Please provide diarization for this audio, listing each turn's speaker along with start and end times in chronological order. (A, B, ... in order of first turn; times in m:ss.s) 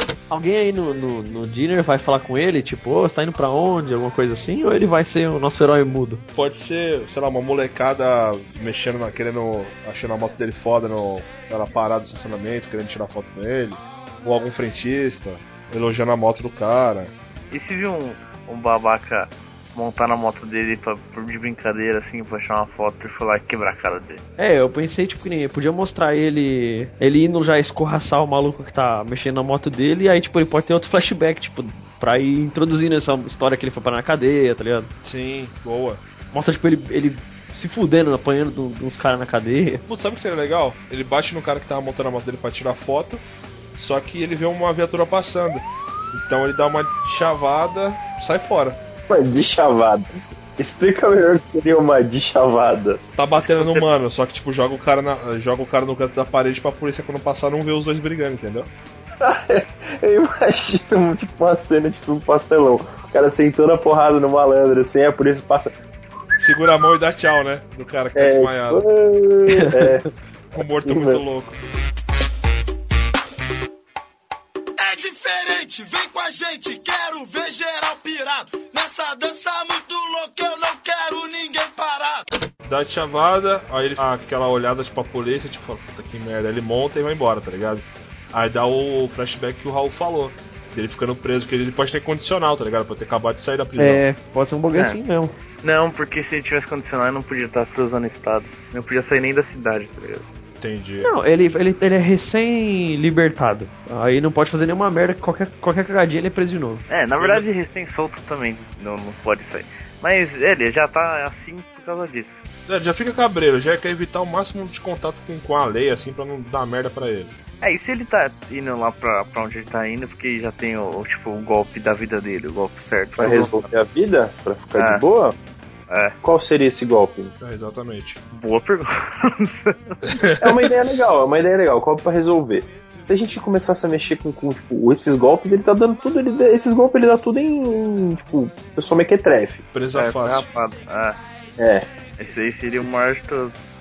0:00.3-0:06.2 A
0:06.3-0:17.1 B
0:17.5-0:24.2 C
0:24.4-0:34.9 A
0:35.0-0:36.0 B
0:36.3-0:39.8 A
0:39.9-0:43.2 B
0:43.8-0:48.8 B
0:49.1-0:53.0 D
0:53.2-0:58.7 B
0:59.2-1:05.8 D
1:06.4-1:08.8 B
1:08.1-1:10.0 D
1:09.5-1:10.0 A
1:10.5-1:11.6 B
1:10.6-1:11.2 D
1:14.8-1:22.2 E
1:22.6-1:34.0 B
1:33.8-1:35.4 A
1:34.7-1:35.0 C
1:35.6-1:40.3 C
1:40.6-1:41.1 B
1:41.0-1:46.8 A
1:46.9-1:52.4 C
1:47.2-1:47.4 B
1:52.7-1:57.3 B
1:57.6-2:03.7 C
2:03.2-2:05.4 D
2:04.8-2:05.0 C
2:05.9-2:06.1 C
2:06.2-2:07.3 D
2:07.4-2:08.2 B
2:08.3-2:10.0 C
2:10.1-2:10.7 B
2:10.4-2:19.6 D
2:19.7-2:20.4 B
2:19.9-2:21.2 C
2:21.6-2:21.9 D
2:22.2-2:23.5 C